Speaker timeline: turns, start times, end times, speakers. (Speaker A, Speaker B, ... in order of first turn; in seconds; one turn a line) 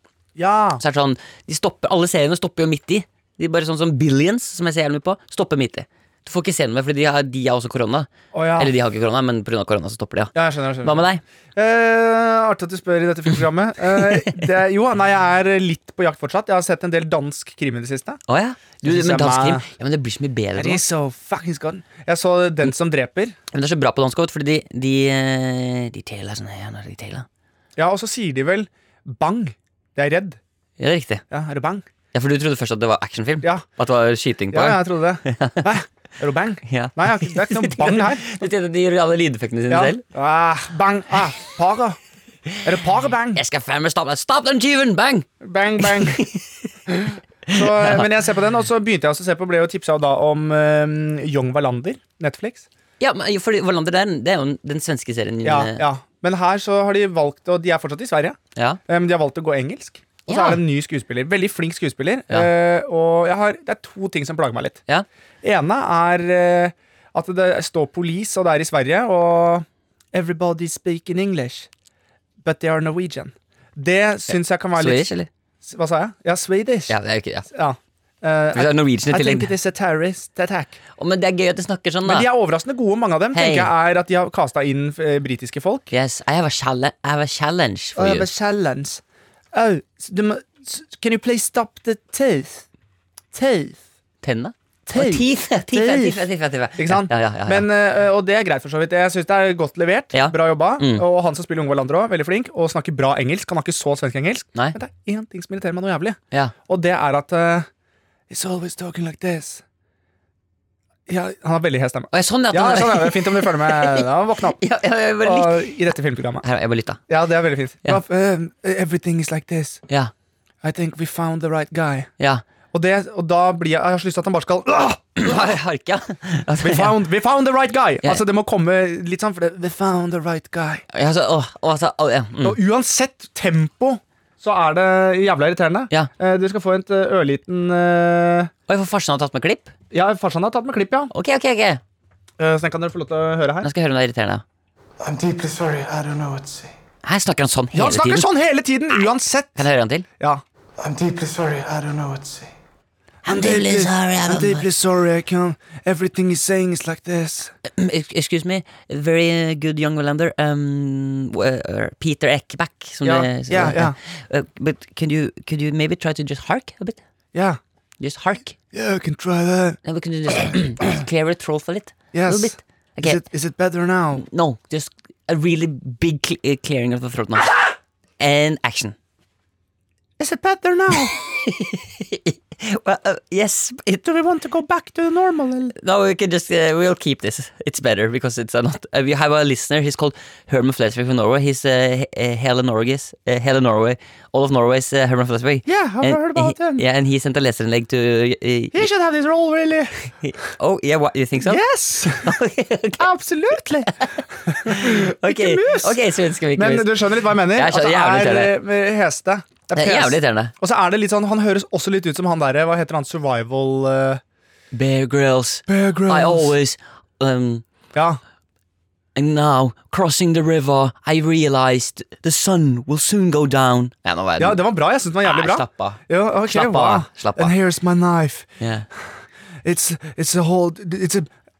Speaker A: 0.3-0.8
Speaker B: 0.8-11.2
Speaker A: 8.3-8.7
Speaker A: 10.3-18.2
Speaker B: 18.3-20.8
Speaker A: 18.8-19.6
Speaker A: 20.6-23.4
Speaker B: 23.5-27.2
Speaker A: 27.8-30.4
Speaker B: 30.8-31.2
Speaker A: 31.3-31.9
Speaker B: 32.1-35.7
Speaker A: 34.5-38.3
Speaker B: 36.6-40.0
Speaker A: 39.7-42.0
Speaker A: 42.6-43.4
Speaker B: 43.3-45.3
Speaker A: 45.4-46.2
Speaker B: 45.8-46.4
Speaker A: 46.9-52.6
Speaker B: 47.5-48.1
Speaker B: 53.0-55.8
Speaker A: 55.4-64.8
Speaker B: 60.3-60.6
Speaker A: 65.4-71.7
Speaker A: 72.4-77.0
Speaker B: 74.3-75.3
Speaker B: 76.9-77.5
Speaker A: 77.5-80.8
Speaker B: 78.5-79.5
Speaker B: 81.0-82.3
Speaker A: 82.0-85.9
Speaker B: 83.3-83.7
Speaker B: 85.9-88.3
Speaker A: 88.0-89.0
Speaker A: 89.5-92.6
Speaker A: 93.3-93.8
Speaker B: 94.2-97.7
Speaker A: 94.9-107.7
Speaker B: 100.1-101.0
Speaker A: 108.3-109.6
Speaker A: 111.1-114.6
Speaker B: 112.1-115.8
Speaker A: 115.2-116.4
Speaker B: 116.4-117.0
Speaker A: 117.1-119.8
Speaker A: 120.6-122.1
Speaker A: 122.7-125.5
Speaker B: 125.2-127.0
Speaker A: 126.6-130.8
Speaker B: 130.9-132.6
Speaker A: 132.4-138.5
Speaker B: 138.7-139.7
Speaker A: 139.9-141.1
Speaker B: 141.1-141.8
Speaker A: 142.4-143.7
Speaker B: 143.6-144.4
Speaker C: 145.0-146.8
Speaker B: 147.0-148.3
Speaker A: 147.7-149.6
Speaker B: 149.6-150.1
Speaker C: 150.8-152.5
Speaker B: 153.2-154.7
Speaker A: 153.2-157.5
Speaker B: 157.7-167.0
Speaker A: 163.0-163.9
Speaker A: 167.3-167.6
Speaker B: 168.0-168.5
Speaker A: 168.7-169.8
Speaker B: 169.8-173.2
Speaker A: 170.3-170.6
Speaker A: 172.1-174.2
Speaker B: 174.2-177.5
Speaker B: 178.2-178.9
Speaker A: 180.2-181.1
Speaker B: 181.2-184.0
Speaker A: 184.0-185.7
Speaker B: 185.8-198.9
Speaker A: 195.7-196.8
Speaker A: 198.7-199.9
Speaker B: 200.2-201.6
Speaker A: 201.4-202.3
Speaker B: 202.2-203.0
Speaker A: 203.0-206.0
Speaker B: 204.7-208.6
Speaker A: 206.5-214.2
Speaker B: 209.7-210.5
Speaker B: 214.7-217.6
Speaker A: 215.7-216.5
Speaker A: 217.9-218.2
Speaker B: 219.1-224.6
Speaker A: 224.4-231.3
Speaker B: 225.2-227.5
Speaker B: 228.6-228.9